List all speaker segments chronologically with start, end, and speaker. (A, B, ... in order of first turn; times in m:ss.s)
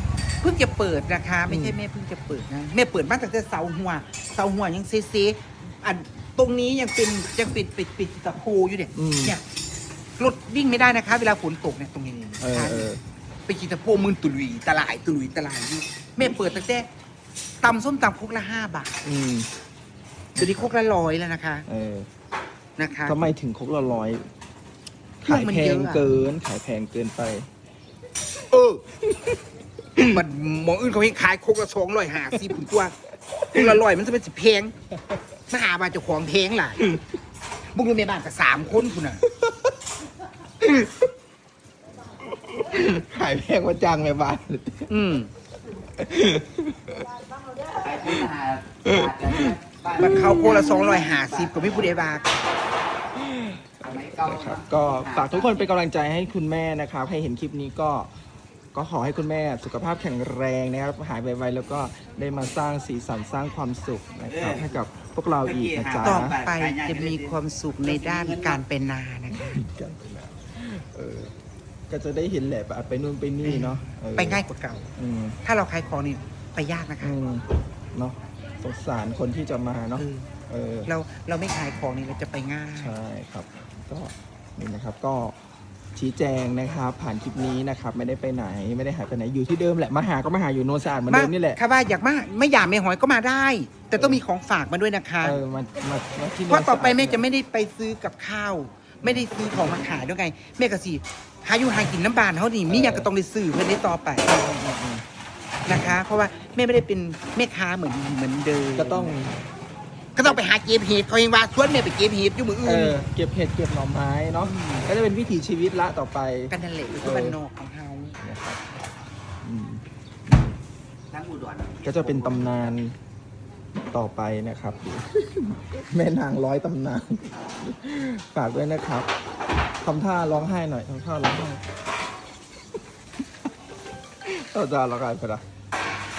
0:00.4-0:09.4 A
0:01.5-0:01.8 B
0:09.0-0:09.4 B
0:10.2-0:12.9 A
0:12.4-0:13.0 B
0:13.5-0:16.9 A
0:17.6-0:19.0 A
0:19.0-0:19.5 B
0:20.4-0:20.7 B
0:20.4-0:21.7 A
0:21.7-0:22.1 B
0:22.8-0:23.2 A
0:23.1-0:24.3 B
0:25.2-0:27.5 B
0:25.2-0:26.1 A
0:28.5-0:28.8 A
0:29.0-0:29.4 B
0:30.0-0:33.0 A
0:32.3-0:32.6 B
0:33.4-0:33.8 B
0:33.5-0:34.8 A
0:35.5-0:36.9 A
0:37.8-0:39.2 A
0:39.3-0:39.7 B
0:40.6-0:41.1 B
0:42.2-0:44.9 B
0:44.9-0:45.3 A
0:46.0-0:47.1 B
0:47.8-0:50.1 C
0:48.8-0:50.8 B
0:50.0-0:52.4 A
0:53.2-0:58.1 B
0:53.8-0:55.3 C
0:58.7-1:06.4 B
1:06.0-1:09.6 A
1:09.3-1:11.3 B
1:11.9-1:14.4 B
1:13.4-1:14.9 A
1:15.0-1:15.4 B
1:15.4-1:17.2 A
1:17.0-1:20.9 B
1:20.0-1:20.3 A
1:20.9-1:23.0 A
1:22.8-1:25.4 B
1:26.0-1:31.6 B
1:31.1-1:35.4 A
1:34.0-1:34.2 B
1:35.2-1:37.2 B
1:36.5-1:44.4 A
1:42.7-1:43.1 B
1:44.3-1:45.0 B
1:45.7-1:49.1 A
1:48.8-1:49.4 B
1:50.2-1:53.0 A
1:52.6-1:57.4 B
1:54.4-1:54.9 A
1:56.5-1:58.2 A
1:58.2-1:58.6 B
1:59.4-2:00.6 B
2:01.1-2:01.9 C
2:01.8-2:03.0 B
2:03.9-2:09.1 B
2:09.8-2:11.6 B
2:14.2-2:15.4 B